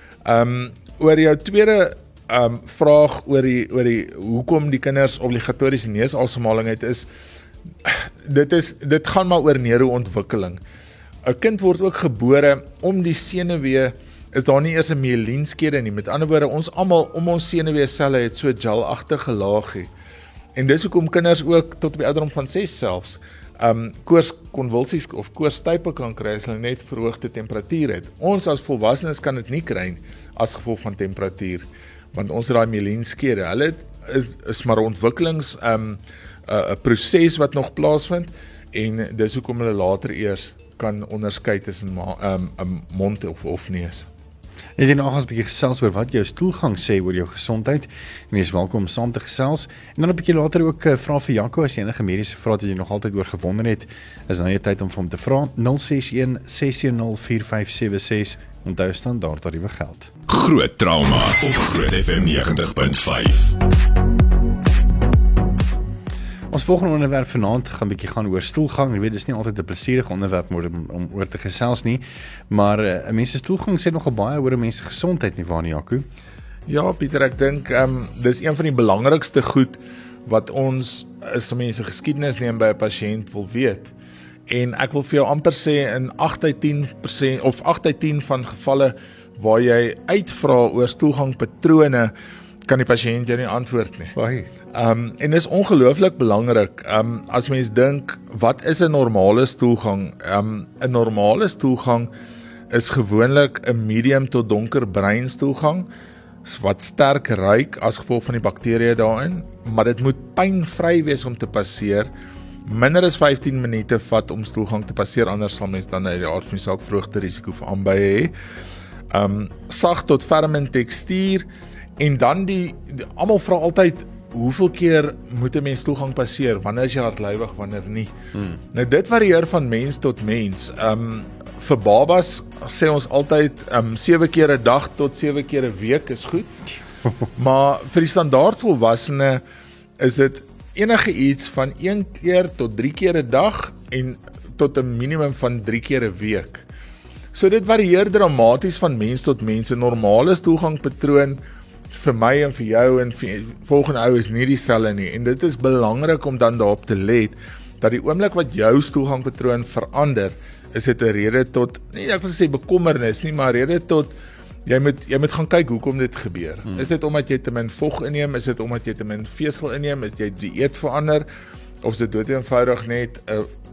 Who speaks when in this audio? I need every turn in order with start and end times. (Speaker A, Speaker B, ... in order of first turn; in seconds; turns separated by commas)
Speaker A: 0.2-7.1, Speaker A: 7.8-10.6, Speaker A: 11.2-19.9, Speaker A: 20.6-44.1, Speaker B: 44.8-60.1, Speaker C: 60.3-63.5, Speaker B: 66.5-76.0, Speaker A: 76.7-83.9, Speaker A: 84.5-92.1, Speaker A: 92.7-94.1, Speaker B: 94.2-94.5, Speaker A: 94.7-102.1, Speaker A: 102.7-105.9, Speaker A: 106.4-112.1, Speaker A: 112.7-118.3, Speaker A: 119.1-121.5, Speaker A: 122.0-128.2, Speaker A: 128.7-136.6, Speaker A: 137.4-139.4, Speaker A: 140.0-146.7, Speaker A: 147.3-151.4, Speaker A: 151.9-164.1, Speaker A: 164.7-171.2, Speaker A: 171.8-173.5